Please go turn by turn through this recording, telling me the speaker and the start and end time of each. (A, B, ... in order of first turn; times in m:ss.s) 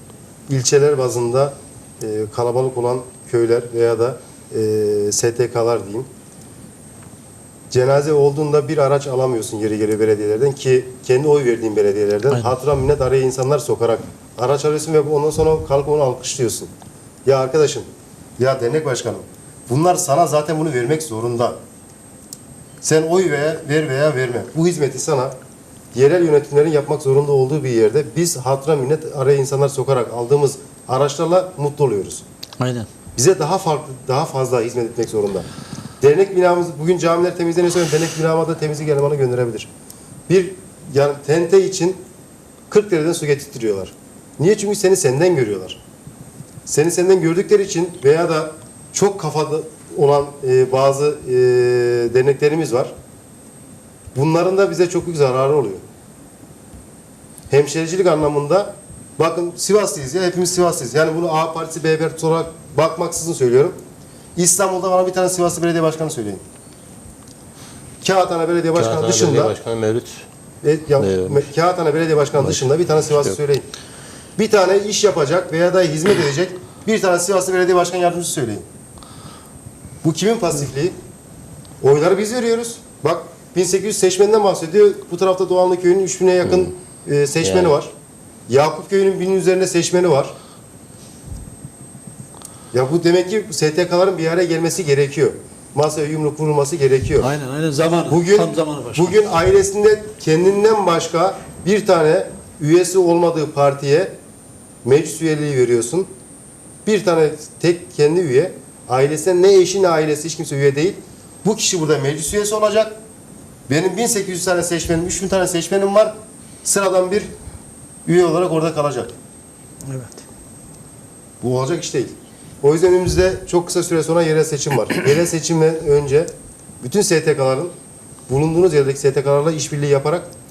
0:00.5-0:06.1 A
0:07.7-0:16.7 A
0:17.3-0:17.9 A
0:18.4-0:21.6 A
0:22.8-0:25.3 A
0:25.9-0:32.2 A
0:32.6-0:32.9 B
0:33.2-0:35.5 A
0:36.0-0:39.7 A
0:40.3-0:42.0 A
0:42.7-0:45.8 A
0:46.7-0:52.9 A
0:54.2-0:55.8 A
0:57.5-1:03.8 A
1:04.4-1:06.4 A
1:08.0-1:09.6 A
1:08.8-1:10.2 C
1:10.6-1:13.7 A
1:11.0-1:11.5 C
1:14.4-1:18.6 A
1:20.0-1:21.0 A
1:21.8-1:27.9 A
1:27.4-1:27.7 C
1:28.5-1:30.3 A
1:32.7-1:37.4 A
1:37.2-1:39.2 B
1:38.1-1:44.1 A
1:44.8-1:46.1 A
1:46.8-1:53.0 A
1:53.7-1:57.3 A
1:58.1-1:59.2 A
1:59.8-2:00.2 B
2:01.4-2:07.7 A
2:08.3-2:10.3 A